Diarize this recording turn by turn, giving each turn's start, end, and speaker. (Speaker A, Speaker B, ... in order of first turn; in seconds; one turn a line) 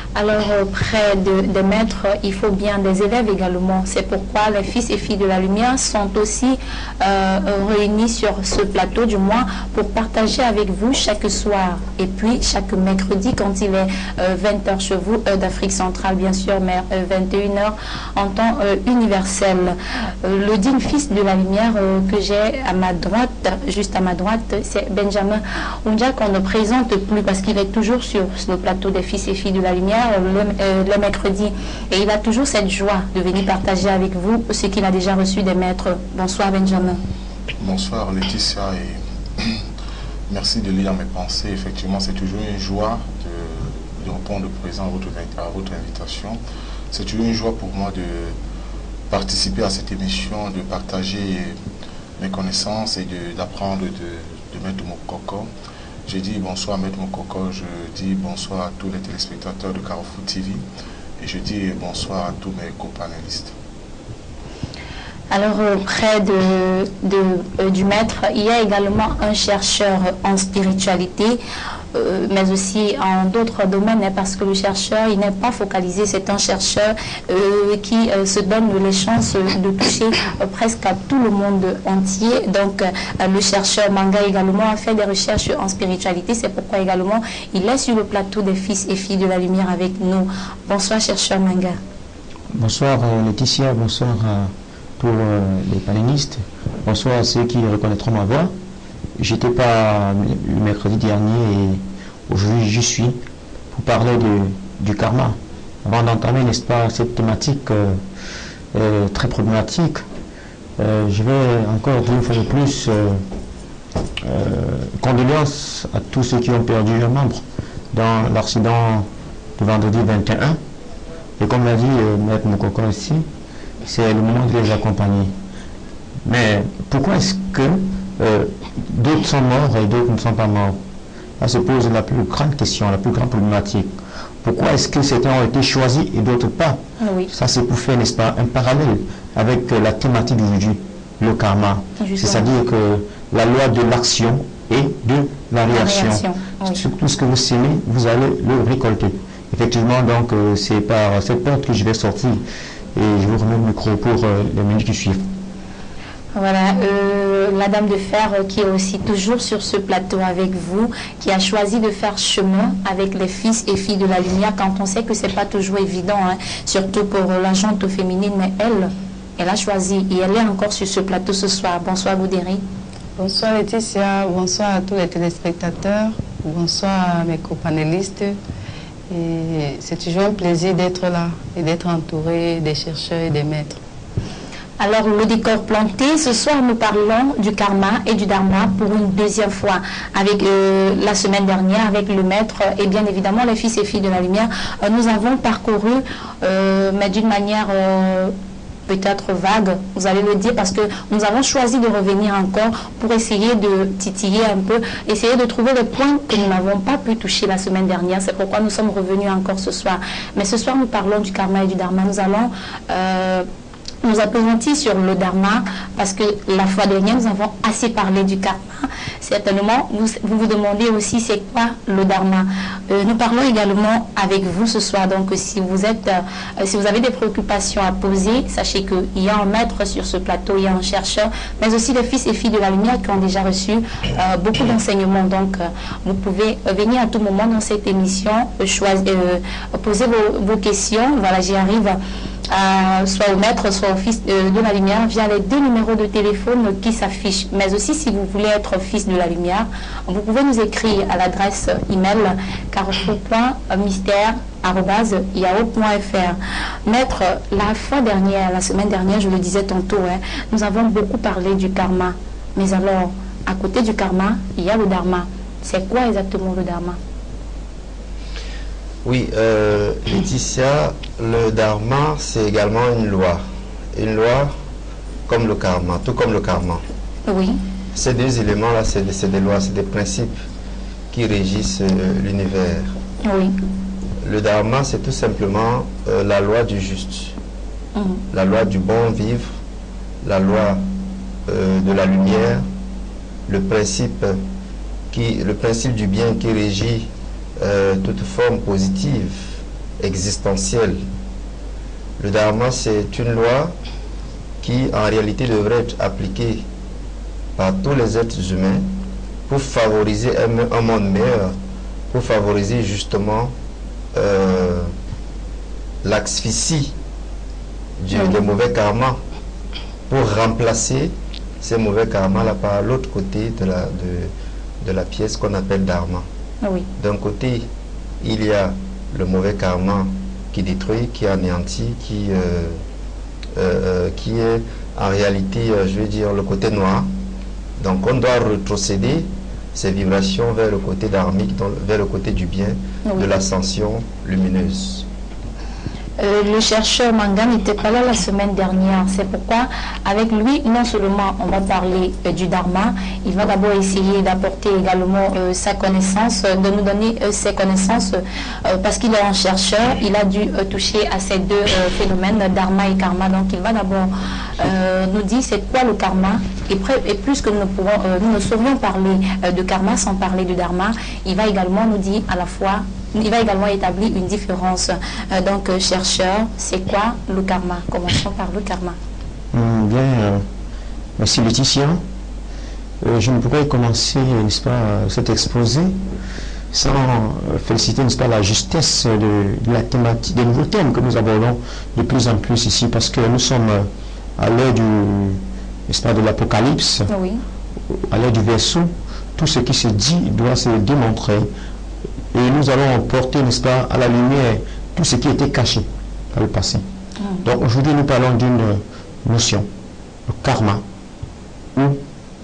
Speaker A: 0.1-37.0
Speaker B: 37.6-39.6
Speaker B: 40.3-46.4
Speaker B: 46.9-48.4
Speaker B: 49.1-51.6
Speaker B: 52.2-55.5
Speaker B: 56.1-60.6
Speaker B: 61.2-63.5
Speaker A: 65.3-71.4
Speaker A: 71.9-91.8
Speaker C: 92.5-98.5
Speaker C: 99.2-103.2
Speaker C: 103.7-108.0
Speaker C: 108.7-110.0
Speaker C: 110.8-113.2
Speaker C: 114.2-120.6
Speaker C: 121.4-123.3
Speaker C: 123.8-125.3
Speaker C: 126.2-130.8
Speaker C: 131.4-152.4
Speaker A: 137.0-137.3
Speaker A: 142.0-142.5
Speaker A: 145.7-146.8
Speaker C: 152.9-155.2
Speaker A: 156.3-172.6
Speaker D: 173.2-178.4
Speaker D: 179.1-183.8
Speaker A: 184.8-198.3
Speaker A: 198.9-213.5
Speaker A: 214.0-242.0
Speaker A: 242.5-267.0
Speaker E: 269.1-273.4
Speaker E: 273.9-274.5
Speaker E: 275.3-276.8
Speaker A: 277.3-277.6
Speaker E: 277.9-280.4
Speaker E: 281.1-282.9
Speaker A: 283.2-283.6
Speaker E: 284.2-287.4
Speaker A: 287.9-288.2
Speaker E: 288.3-289.6
Speaker E: 290.2-290.8
Speaker E: 291.5-292.7
Speaker E: 293.5-294.4
Speaker E: 295.1-297.1
Speaker E: 297.6-299.5
Speaker E: 300.0-301.0
Speaker E: 302.2-303.7
Speaker E: 304.6-306.6
Speaker E: 307.6-308.9
Speaker E: 309.5-311.6
Speaker E: 312.1-313.5
Speaker E: 314.1-314.9
Speaker E: 316.0-316.9
Speaker E: 318.0-319.2
Speaker A: 318.1-318.4
Speaker E: 320.1-326.2
Speaker E: 327.0-327.7
Speaker E: 328.2-332.8
Speaker E: 333.6-337.1
Speaker E: 337.8-345.1
Speaker A: 343.1-343.3
Speaker A: 346.2-379.0
Speaker C: 379.5-380.5
Speaker C: 381.2-382.0
Speaker C: 383.0-386.0
Speaker C: 386.7-397.1
Speaker A: 397.1-397.4
Speaker C: 397.9-401.5
Speaker C: 402.3-406.8
Speaker A: 407.2-407.4
Speaker C: 407.4-409.7
Speaker C: 410.3-410.8
Speaker C: 411.8-412.0